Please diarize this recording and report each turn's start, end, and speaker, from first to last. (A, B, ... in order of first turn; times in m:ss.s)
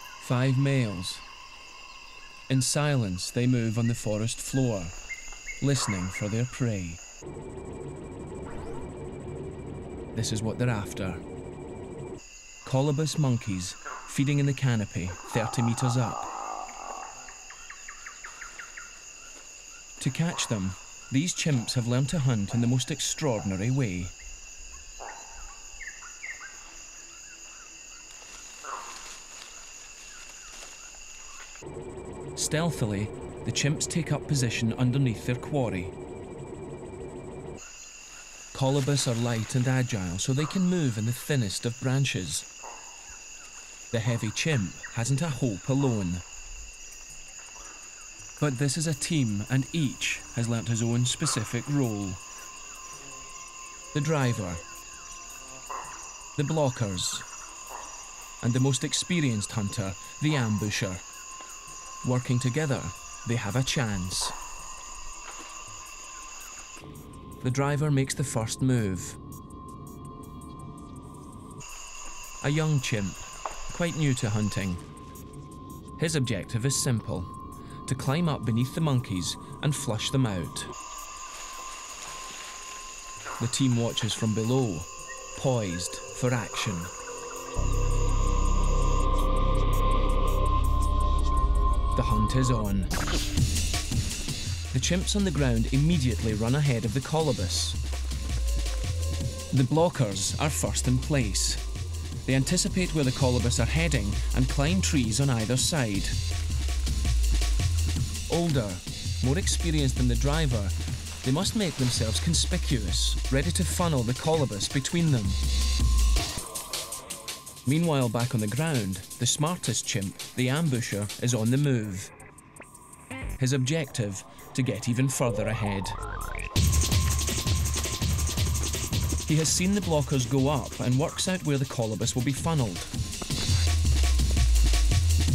0:00.2-0:01.2 A
0:02.5-0:05.0 A
0:05.6-0:07.0 A
0:10.1-0:11.2 A
0:12.6-0:16.3 A
0:20.0-0:24.2 A
0:32.4-0:36.0 A
0:38.5-0:42.5 A
0:43.9-0:46.2 A
0:48.4-0:52.2 A
0:53.9-0:54.6 A
0:56.4-0:57.3 A
0:58.4-1:01.0 A
1:02.0-1:04.4 A
1:07.4-1:09.2 A
1:12.4-1:14.8 A
1:16.0-1:17.3 A
1:17.9-1:20.7 A
1:23.4-1:26.9 A
1:31.9-1:32.9 A
1:34.7-1:37.8 A
1:39.5-1:41.6 A
1:42.2-1:46.2 A
1:48.3-1:55.4 A
1:57.6-2:02.1 A
2:03.4-2:06.0 A
2:09.2-2:12.9 A